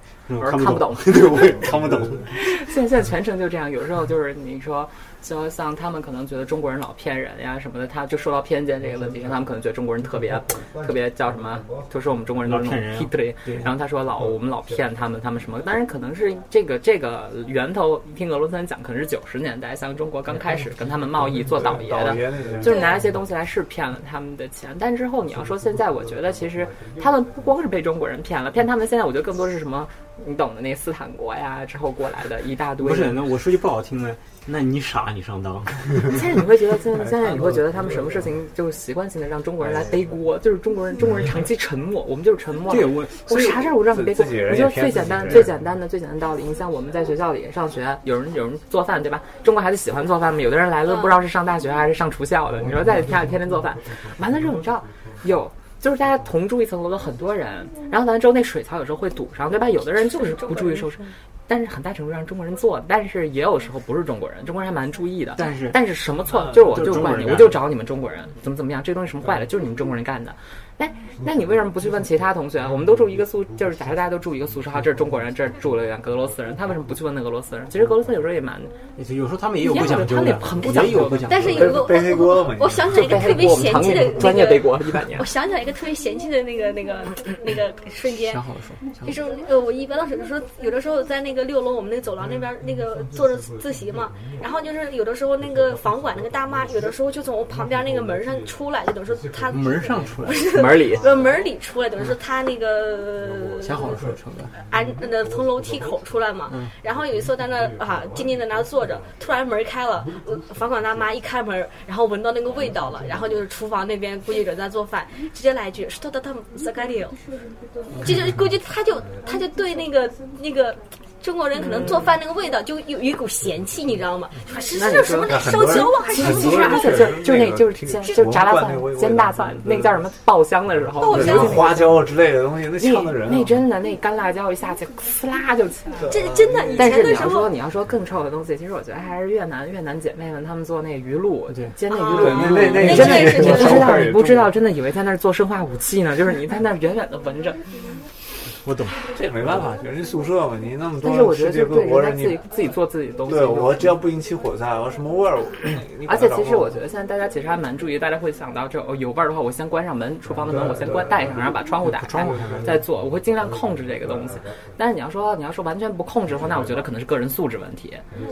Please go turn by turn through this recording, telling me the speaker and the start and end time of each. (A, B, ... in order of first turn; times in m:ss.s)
0:00.3-0:02.0 A
0:00.4-0:01.6 B
0:01.2-0:02.3 C
0:02.4-0:33.2 B
0:12.4-0:13.7 A
0:21.5-0:22.9 C
0:22.6-0:23.0 D
0:32.8-0:36.1 A
0:36.0-1:18.7 B
0:37.2-0:37.6 C
0:42.7-0:43.6 A
0:43.8-0:45.5 C
0:50.8-0:51.2 D
1:00.2-1:00.9 D
1:05.4-1:05.8 A
1:06.3-1:06.8 C
1:06.3-1:07.6 A
1:19.0-1:21.8 A
1:19.6-1:21.4 B
1:21.3-1:28.4 D
1:21.4-1:23.4 C
1:22.9-1:25.3 B
1:28.1-1:29.2 A
1:29.0-1:44.0 D
1:39.5-1:40.5 A
1:40.5-1:41.1 B
1:43.6-1:44.5 A
1:44.7-1:57.2 D
1:57.9-1:58.3 C
1:58.0-2:07.2 D
2:01.6-2:02.1 B
2:04.7-2:12.0 B
2:05.2-2:10.0 C
2:11.0-2:11.8 D
2:11.0-2:13.6 C
2:12.8-2:16.1 B
2:16.0-2:17.3 C
2:16.1-2:17.5 D
2:16.8-2:27.6 B
2:21.9-2:23.9 D
2:22.1-2:24.5 C
2:22.4-2:24.3 A
2:28.6-2:29.1 A
2:29.1-2:32.5 C
2:31.0-2:34.0 B
2:33.2-2:36.8 C
2:36.0-2:48.0 B
2:40.5-2:41.2 C
2:41.8-2:42.8 A